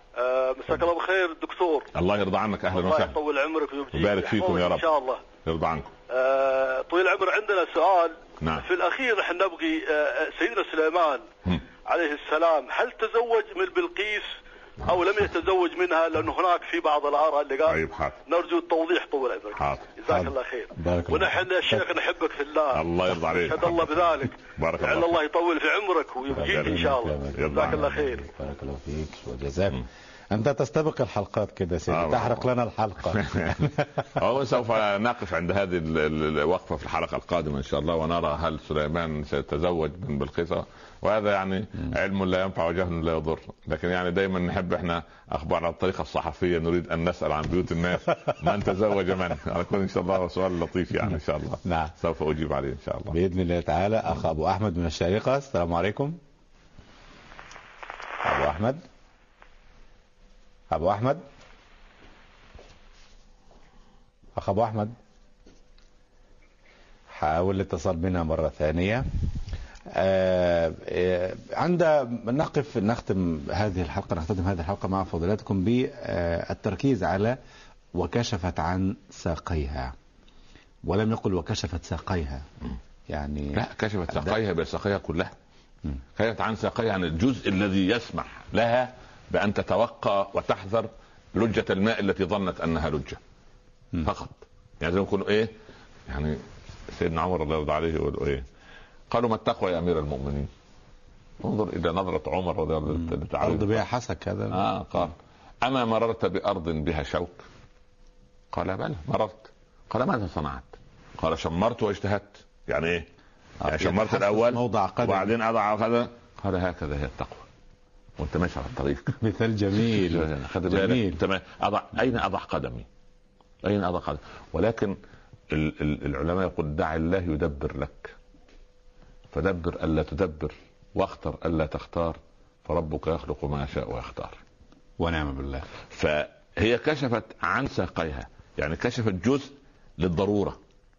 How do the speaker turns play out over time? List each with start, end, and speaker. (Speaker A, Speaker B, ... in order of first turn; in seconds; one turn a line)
Speaker A: 0.2-1.9
Speaker B: 1.9-3.2
Speaker A: 2.7-5.2
Speaker B: 3.9-4.9
Speaker B: 5.4-5.9
Speaker A: 6.1-11.3
Speaker B: 8.4-8.7
Speaker A: 11.9-28.3
Speaker B: 17.6-18.2
Speaker B: 19.6-19.9
Speaker C: 20.1-22.0
Speaker B: 22.7-25.2
Speaker C: 26.3-33.9
Speaker B: 26.4-27.8
Speaker B: 31.9-32.5
Speaker B: 33.0-53.2
Speaker C: 51.6-51.9
Speaker C: 53.1-56.2
Speaker C: 58.2-58.8
Speaker C: 60.7-61.2
Speaker C: 64.4-65.0
Speaker C: 67.1-69.1
Speaker C: 70.0-77.4
Speaker C: 78.0-79.9
Speaker C: 80.8-82.5
Speaker C: 83.1-84.4
Speaker B: 83.5-85.3
Speaker B: 86.2-93.2
Speaker B: 94.0-95.5
Speaker B: 96.1-98.5
Speaker B: 99.1-100.5
Speaker B: 101.4-103.8
Speaker C: 102.9-105.1
Speaker B: 104.5-107.5
Speaker B: 108.5-113.1
Speaker C: 113.6-115.3
Speaker B: 113.7-117.5
Speaker B: 118.2-119.2
Speaker C: 119.2-121.2
Speaker B: 119.8-122.9
Speaker B: 123.6-125.0
Speaker B: 125.5-128.2
Speaker B: 129.3-134.4
Speaker C: 135.0-135.7
Speaker B: 135.9-140.6